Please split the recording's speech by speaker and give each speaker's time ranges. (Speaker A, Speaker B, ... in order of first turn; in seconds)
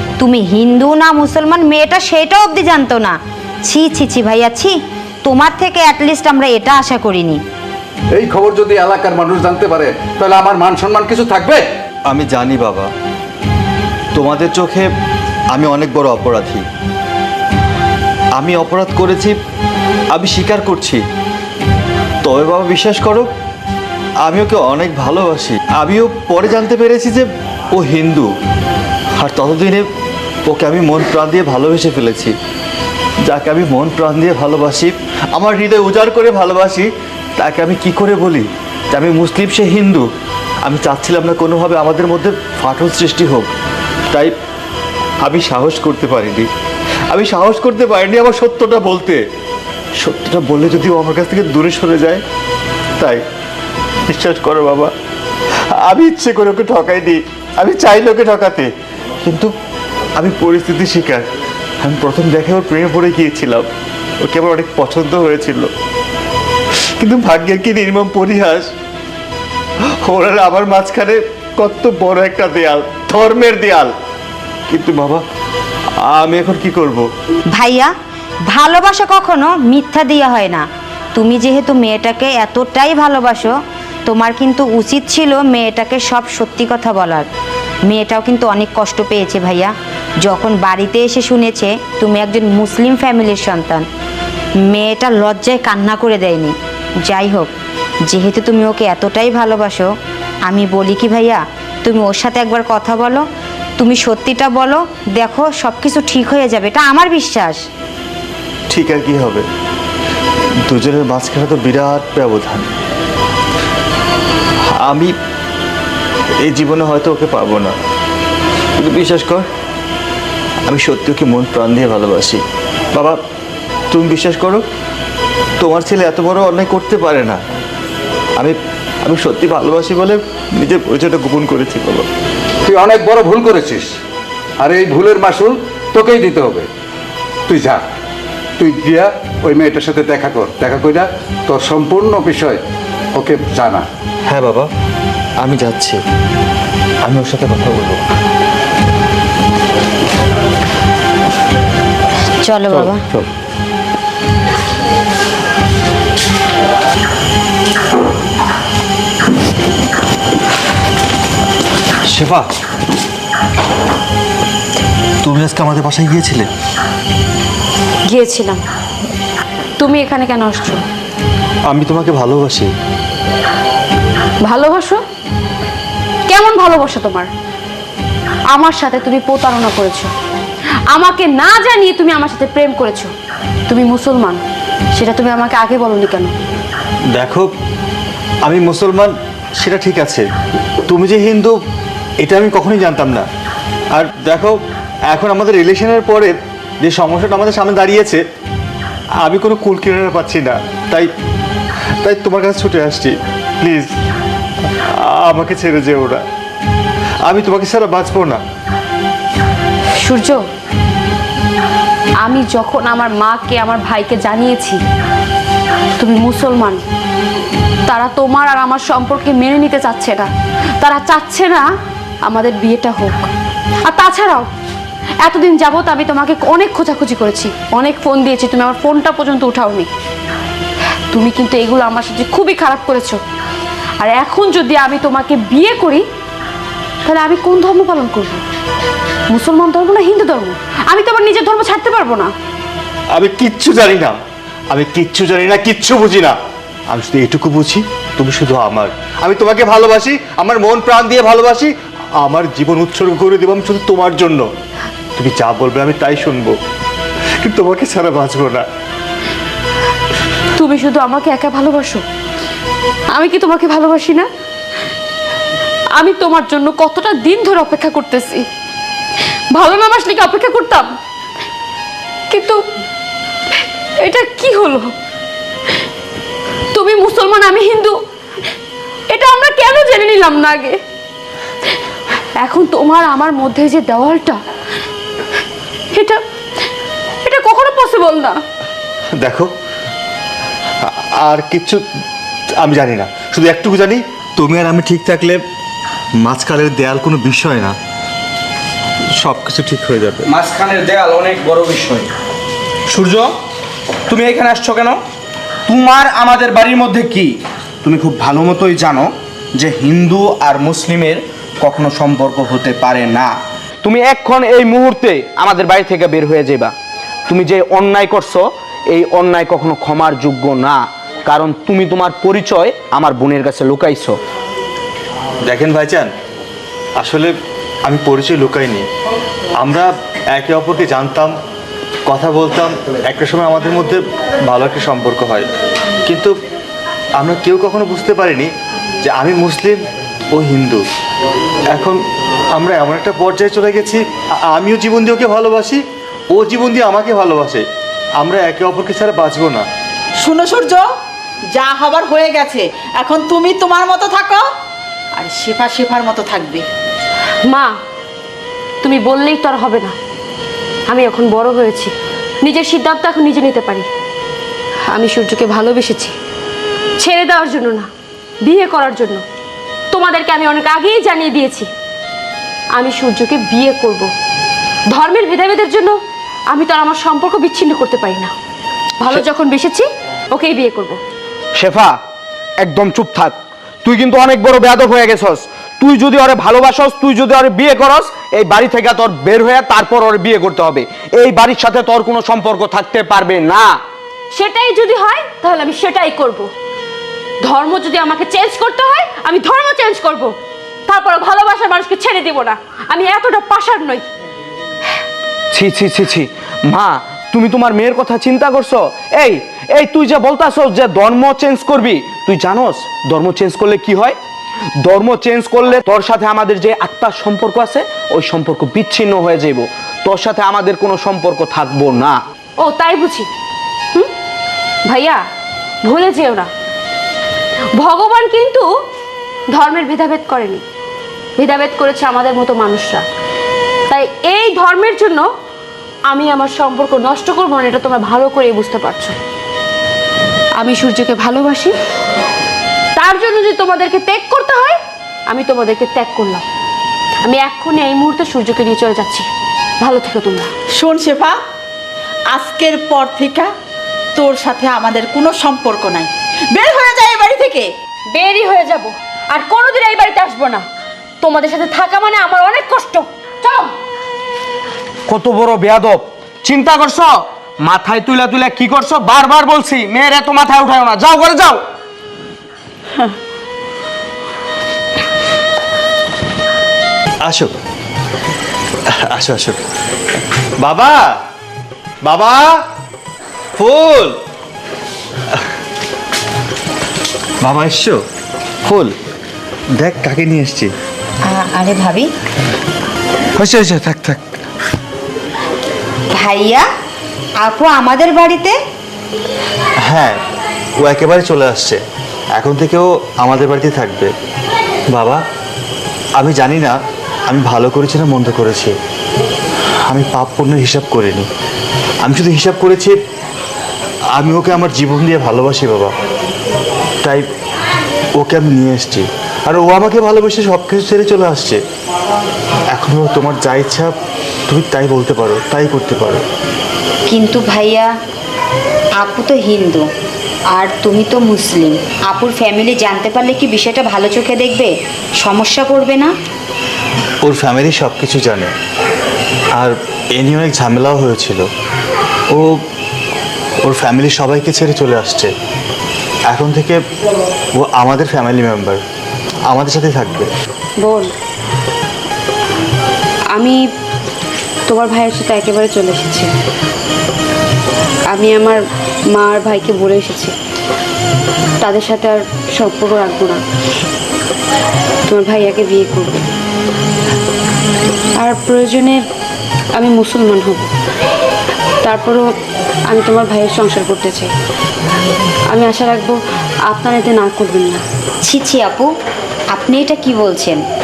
Speaker A: 0.2-7.4, 77.5-77.9, 78.5-80.7, 81.2-83.6, 84.1-87.3, 87.9-93.8, 94.7-96.5, 97.1-97.5, 98.1-99.9, 100.5-103.2, 103.8-107.6, 152.4-153.0, 491.3-492.1, 496.1-496.6, 497.4-498.6, 527.1-527.9, 529.0-529.9, 530.5-536.1, 578.2-578.9, 579.5-580.6
Speaker B: 8.1-11.7, 132.7-133.9, 134.6-136.7, 137.5-137.8, 138.6-142.6, 143.2-143.8, 152.7-153.3, 493.4-494.2
Speaker C: 12.1-12.9, 14.2-14.9, 15.5-16.6, 18.4-19.4, 20.1-21.0, 22.2-23.3, 24.2-28.3, 29.2-29.9, 30.5-32.3, 33.3-40.1, 40.6-43.5, 45.2-46.5, 47.1-49.2, 50.0-52.2, 54.1-54.9, 55.8-58.7, 59.2-59.5, 60.2-61.2, 61.8-63.7, 64.2-65.7, 67.0-68.7, 70.0-73.9, 74.7-75.2, 76.1-77.0, 108.7-109.4, 110.7-112.7, 114.8-115.1, 116.4-117.7, 118.8-119.5, 120.7-122.4, 122.9-123.2, 123.9-124.6, 125.6-127.4, 128.4-132.1, 144.3-144.7, 145.4-146.0, 147.0-148.0, 162.1-162.5, 165.2-166.5, 171.7-172.7, 187.2-187.5, 188.4-190.2, 190.9-191.5, 192.2-193.3, 193.9-194.6, 195.1-198.2, 199.2-201.1, 202.0-203.9, 205.0-206.2, 207.3-208.4, 243.2-244.2, 244.7-246.4, 246.9-251.7, 252.2-254.5, 255.2-256.6, 257.4-258.6, 289.2-289.5, 290.8-291.8, 292.6-295.4, 296.2-297.8, 299.1-300.3, 325.5-326.1, 327.0-327.3, 327.9-328.9, 329.6-331.3, 332.1-335.5, 336.1-336.3, 337.2-338.5, 339.0-339.8, 340.3-340.8, 341.7-342.0, 342.6-347.6, 348.2-349.7, 477.2-477.5, 478.9-479.6, 480.6-481.1, 482.0-482.6, 483.6-484.1, 487.4-488.0, 488.6-488.9, 489.8-490.7, 499.9-500.2, 500.8-501.8, 502.4-504.1, 504.9-505.2, 506.2-506.7, 507.3-508.7, 509.9-511.3, 512.0-513.0, 514.1-515.9, 518.2-521.6, 522.7-523.9, 524.5-526.2, 537.2-538.5, 539.6-541.4, 543.6-545.3, 546.3-546.8, 547.6-548.8, 549.5-550.3
Speaker D: 168.1-168.6, 169.8-170.8, 174.4-175.0, 176.3-177.3, 178.5-180.1, 180.9-183.1, 183.7-184.4, 184.9-186.3, 210.0-210.4, 212.2-214.8, 216.0-216.8, 217.9-221.7, 222.2-223.3, 223.8-224.5, 225.2-229.9, 231.1-233.2, 234.0-236.0, 237.0-238.4, 239.3-242.3, 260.6-262.0, 263.1-264.3, 266.0-268.5, 269.5-270.9, 272.3-272.6, 274.0-274.9, 276.7-278.0, 279.1-280.8, 282.4-284.4, 285.9-286.2, 287.2-288.4, 357.4-357.8, 358.8-359.9, 360.9-363.9, 364.9-366.1, 367.0-367.9, 368.4-369.2, 369.9-371.7, 372.8-374.1, 374.9-376.0, 376.5-378.3, 379.0-381.0, 394.3-396.5, 397.4-400.4, 400.9-404.1, 422.6-423.3, 424.9-425.2, 425.8-426.5, 427.8-428.7, 429.5-430.6, 431.4-433.1, 433.9-435.3, 436.1-439.2, 440.6-441.8, 443.0-444.8, 445.3-446.4, 447.2-449.3, 449.8-450.5, 458.1-460.6, 461.2-463.7, 550.8-551.1, 553.3-553.6, 554.7-556.3, 558.1-558.6, 559.1-560.4, 561.6-563.4, 565.1-566.3, 568.2-569.0, 569.8-570.7, 571.8-572.2, 572.9-574.3, 575.5-577.8
Speaker E: 300.2-302.1, 302.9-303.3, 304.1-305.0, 305.7-316.7, 317.3-324.2, 381.6-382.0, 382.6-393.7, 405.5-414.2, 414.8-422.2, 465.1-471.6
Speaker F: 350.2-350.9, 351.5-354.5, 355.2-356.6, 450.8-451.4, 452.3-453.5, 454.1-457.7